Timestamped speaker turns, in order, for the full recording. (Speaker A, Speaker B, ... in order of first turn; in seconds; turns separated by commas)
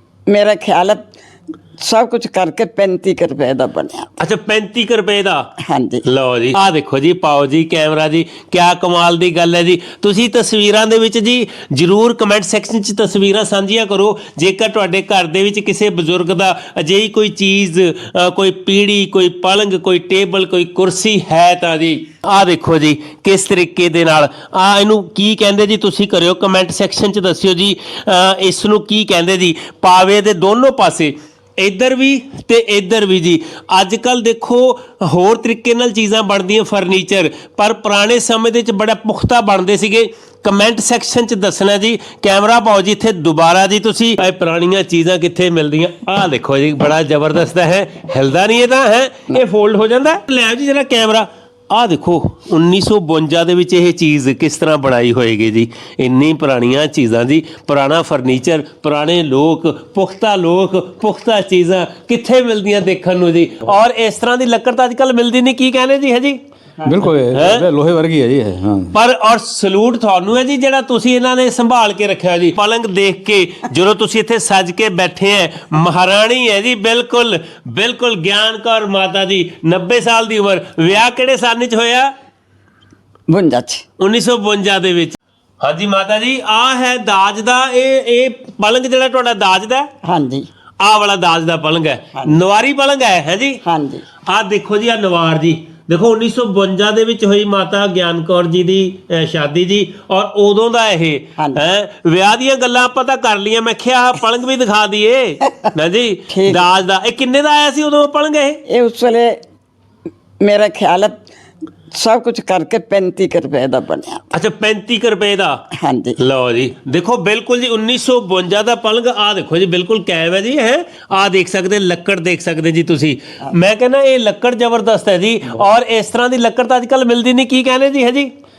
Speaker A: 0.3-1.1, Speaker A: 1.8-4.1, Speaker B: 4.2-5.5, Speaker A: 5.7-6.0, Speaker B: 6.1-66.4, Speaker A: 66.8-67.1, Speaker C: 66.8-69.0, Speaker B: 67.3-67.7, Speaker B: 68.9-82.1, Speaker A: 83.3-83.8, Speaker B: 84.0-89.9, Speaker A: 90.0-90.5, Speaker B: 90.8-93.6, Speaker A: 93.6-94.1, Speaker B: 94.2-108.6, Speaker A: 101.4-101.7, Speaker A: 106.3-106.6, Speaker A: 108.7-109.4, Speaker A: 110.4-111.2, Speaker A: 111.9-114.3, Speaker B: 114.3-115.6, Speaker A: 115.8-116.2, Speaker B: 116.2-128.3